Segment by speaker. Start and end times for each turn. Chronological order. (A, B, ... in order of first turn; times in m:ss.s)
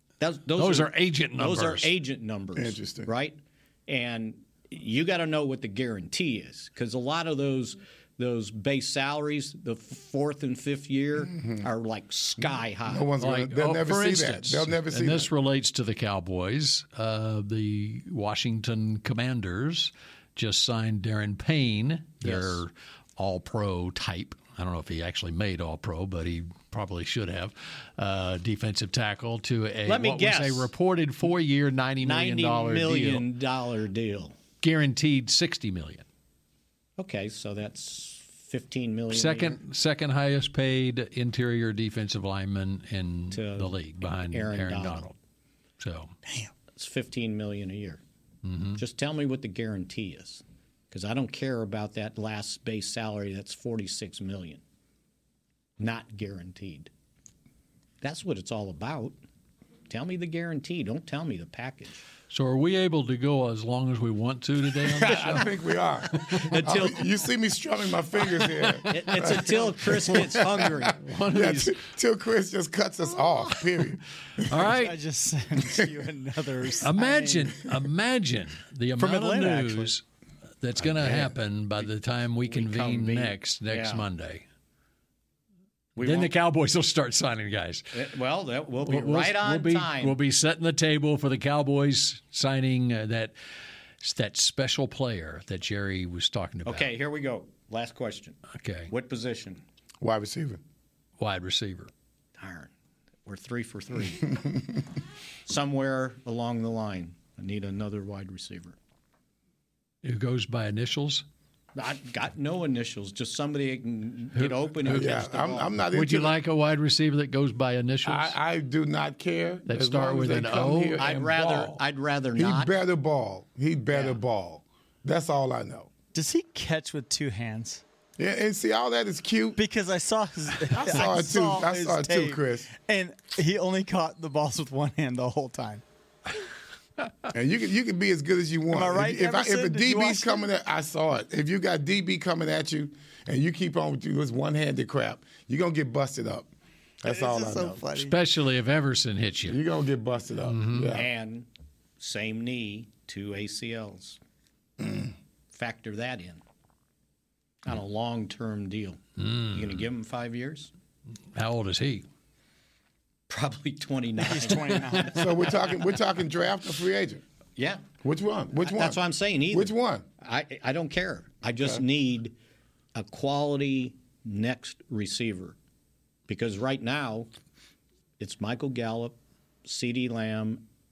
0:00.2-0:13.1 A
0:00.6-0:01.9 B
0:02.6-0:03.1 C
0:11.3-0:11.7 C
0:12.9-0:15.3 C
0:13.2-0:33.3 B
0:22.2-0:22.6 A
0:29.9-0:30.7 A
0:32.0-0:34.4 A
0:34.6-0:36.0 B
0:37.0-0:39.6 A
0:39.1-0:45.2 B
0:43.3-0:45.1 A
0:45.8-0:46.1 B
0:46.8-0:48.0 A
0:48.4-0:48.8 B
0:48.8-0:54.6 A
0:55.8-0:56.9 A
0:58.0-0:59.2 A
0:59.9-1:02.1 A
1:02.3-1:05.5 B
1:04.8-1:14.7 C
1:06.4-1:07.1 A
1:08.9-1:11.0 A
1:11.0-1:11.8 B
1:14.4-1:15.0 B
1:14.8-1:17.7 D
1:16.8-1:20.0 B
1:19.0-1:19.9 D
1:20.6-1:24.4 B
1:20.8-1:21.4 C
1:22.5-1:24.0 A
1:26.0-1:26.3 A
1:26.0-1:28.0 B
1:27.9-1:30.2 A
1:28.8-1:33.3 B
1:34.0-1:36.9 B
1:36.7-1:39.6 A
1:38.6-1:38.9 B
1:40.0-1:40.6 C
1:41.2-1:41.9 B
1:42.4-1:42.7 A
1:43.3-1:44.4 A
1:45.5-1:48.8 A
1:50.0-1:51.2 B
1:51.8-1:55.8 A
1:54.4-1:55.2 B
1:54.8-1:56.4 C
1:55.9-1:58.4 B
1:58.0-2:01.8 C
1:59.7-2:01.0 B
2:01.0-2:02.7 A
2:02.4-2:05.9 C
2:03.9-2:04.2 A
2:06.1-2:07.8 D
2:08.2-2:09.6 C
2:09.6-2:15.8 D
2:10.7-2:12.7 C
2:17.3-2:26.5 C
2:18.7-2:20.4 D
2:27.0-2:27.9 C
2:27.0-2:28.2 D
2:28.0-2:29.6 B
2:29.5-2:31.1 C
2:30.5-2:30.9 B
2:30.9-2:31.5 A
2:32.0-2:34.2 A
2:34.8-2:35.1 C
2:35.5-2:36.4 A
2:37.7-2:40.7 A
2:39.2-2:39.9 B
2:41.3-2:42.1 B
2:43.3-2:45.4 A
2:44.2-2:45.5 D
2:45.1-2:47.2 C
2:47.6-2:47.9 A
2:48.0-2:50.1 C
2:48.6-2:52.4 A
2:52.9-2:55.6 A
2:56.3-2:57.3 A
2:58.2-3:00.6 A